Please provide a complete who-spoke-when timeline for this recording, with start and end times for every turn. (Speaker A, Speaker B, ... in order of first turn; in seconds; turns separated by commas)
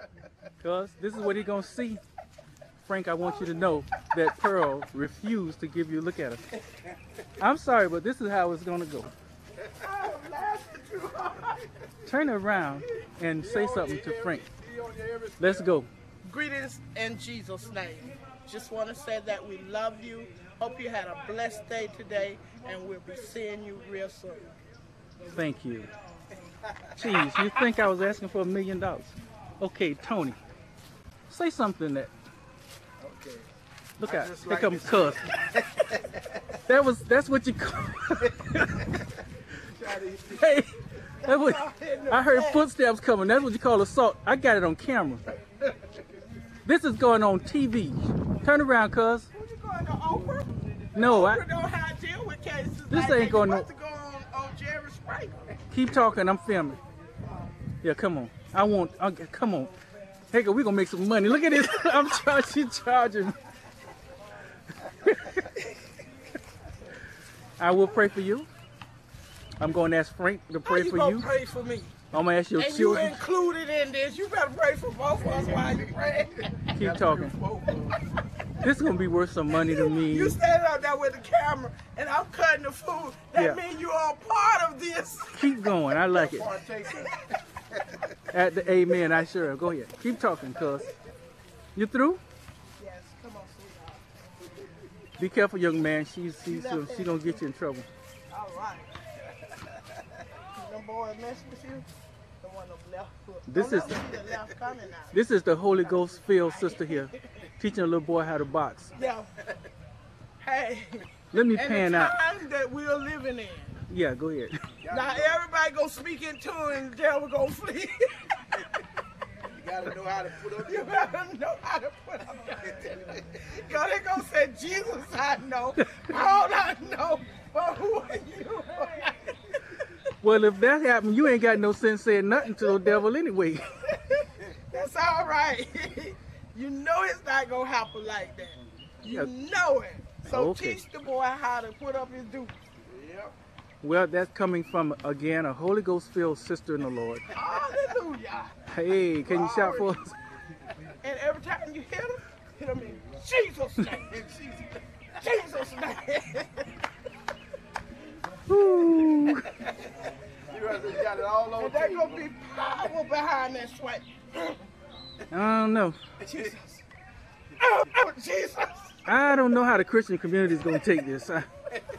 Speaker A: 0.6-2.0, Speaker A: 2.8-6.4, Speaker A: 7.4-9.1, Speaker B: 9.8-11.7, Speaker A: 12.0-14.5, Speaker C: 13.4-15.8, Speaker A: 15.4-15.9, Speaker B: 16.2-24.5, Speaker A: 25.3-25.9, Speaker A: 27.0-30.4, Speaker A: 31.3-32.1, Speaker C: 33.0-33.5, Speaker A: 34.0-35.2, Speaker C: 34.0-36.4, Speaker A: 36.5-38.9, Speaker C: 39.7-40.4, Speaker A: 40.2-45.2, Speaker B: 41.2-42.6, Speaker A: 46.7-49.3, Speaker B: 49.3-55.5, Speaker A: 51.0-51.4, Speaker A: 52.9-53.7, Speaker A: 55.7-56.8, Speaker A: 57.8-59.7, Speaker A: 60.3-63.4, Speaker A: 65.0-65.5, Speaker A: 67.6-68.5, Speaker A: 69.6-71.3, Speaker B: 70.7-72.0, Speaker A: 72.1-73.2, Speaker B: 72.6-76.7, Speaker C: 75.2-76.0, Speaker C: 76.5-78.0, Speaker A: 76.8-77.4, Speaker B: 77.8-78.2, Speaker A: 78.6-80.4, Speaker B: 79.6-85.5, Speaker A: 83.3-83.6, Speaker A: 85.3-86.5, Speaker C: 86.1-88.2, Speaker B: 86.8-87.3, Speaker A: 88.3-90.9, Speaker A: 91.8-92.2, Speaker B: 92.8-94.1, Speaker A: 95.2-97.9, Speaker B: 96.5-97.4, Speaker B: 98.3-98.9, Speaker B: 100.5-101.9, Speaker B: 102.4-105.2, Speaker A: 103.5-104.0, Speaker A: 105.1-108.9, Speaker B: 105.7-107.2, Speaker B: 109.0-109.3, Speaker B: 110.4-113.8, Speaker A: 111.3-112.1, Speaker A: 113.9-114.6, Speaker C: 114.8-115.4, Speaker B: 114.9-118.6, Speaker C: 119.5-121.0, Speaker B: 120.6-130.0, Speaker A: 130.2-133.7, Speaker B: 132.6-133.0, Speaker B: 133.8-142.6, Speaker A: 140.2-140.8, Speaker C: 142.9-143.3, Speaker A: 143.8-147.3, Speaker B: 147.3-148.5, Speaker A: 148.7-150.2, Speaker C: 149.3-149.8, Speaker B: 149.4-150.0, Speaker B: 151.0-154.2, Speaker C: 154.1-154.8, Speaker B: 155.2-156.8, Speaker A: 158.5-159.6, Speaker C: 160.5-162.2, Speaker B: 161.6-164.7, Speaker A: 165.3-166.0, Speaker B: 166.2-166.8, Speaker B: 167.6-169.3, Speaker A: 169.1-171.5